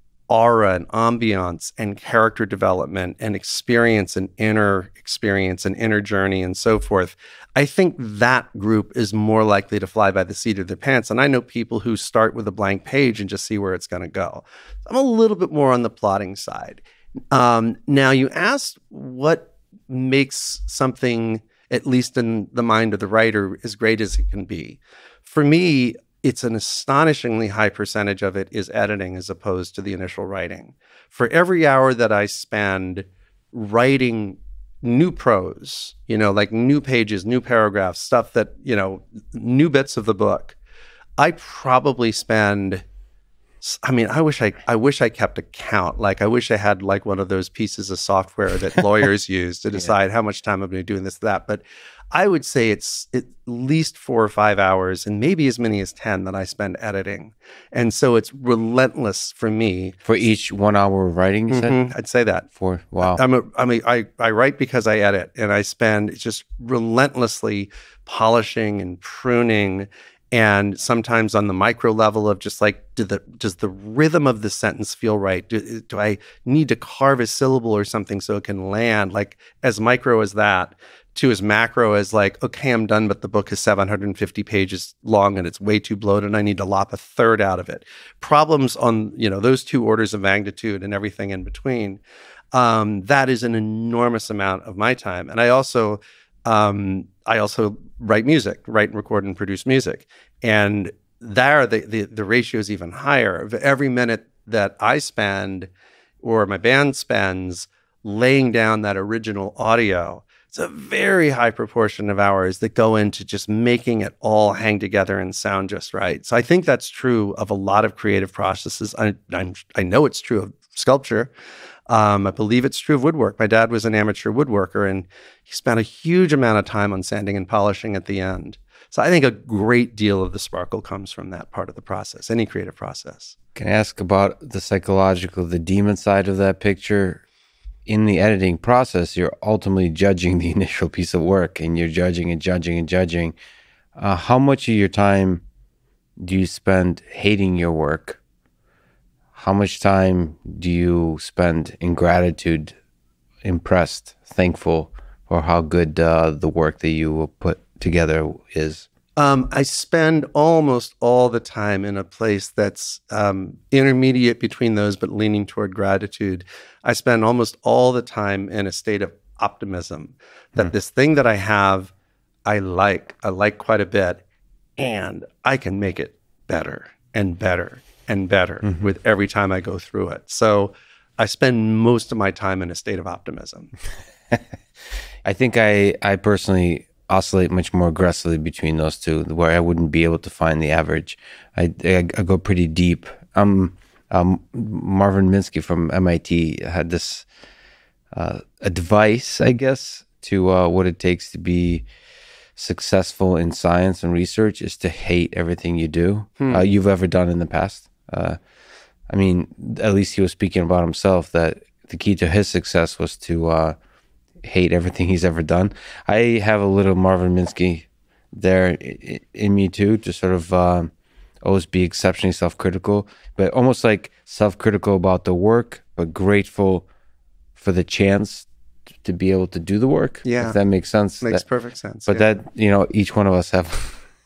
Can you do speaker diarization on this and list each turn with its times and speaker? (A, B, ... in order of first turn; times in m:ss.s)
0:00.3-0:40.6 A
0:41.2-0:42.8 A
0:43.6-1:00.2 A
1:00.0-1:01.8 B
1:01.5-1:02.5 A
1:02.6-1:03.2 B
1:03.0-1:32.0 A
1:32.5-1:45.7 A
1:46.2-2:01.3 A
2:01.9-2:13.4 A
2:13.6-2:17.2 B
2:17.8-2:23.3 B
2:24.0-2:25.4 B
2:26.2-2:28.2 B
2:29.3-2:32.7 B
2:33.4-2:38.8 B
2:39.2-2:51.9 A
2:52.4-2:54.2 A
2:54.8-3:03.7 A
3:05.2-3:17.3 B
3:18.1-3:21.8 B
3:22.6-3:28.4 B
3:26.4-3:26.6 A
3:29.1-3:33.7 B
3:34.4-3:40.9 B
3:41.4-3:46.9 B
3:47.6-3:48.5 B
3:49.0-3:51.4 B
3:50.2-3:50.6 A
3:51.2-3:52.3 A
3:52.1-3:54.0 B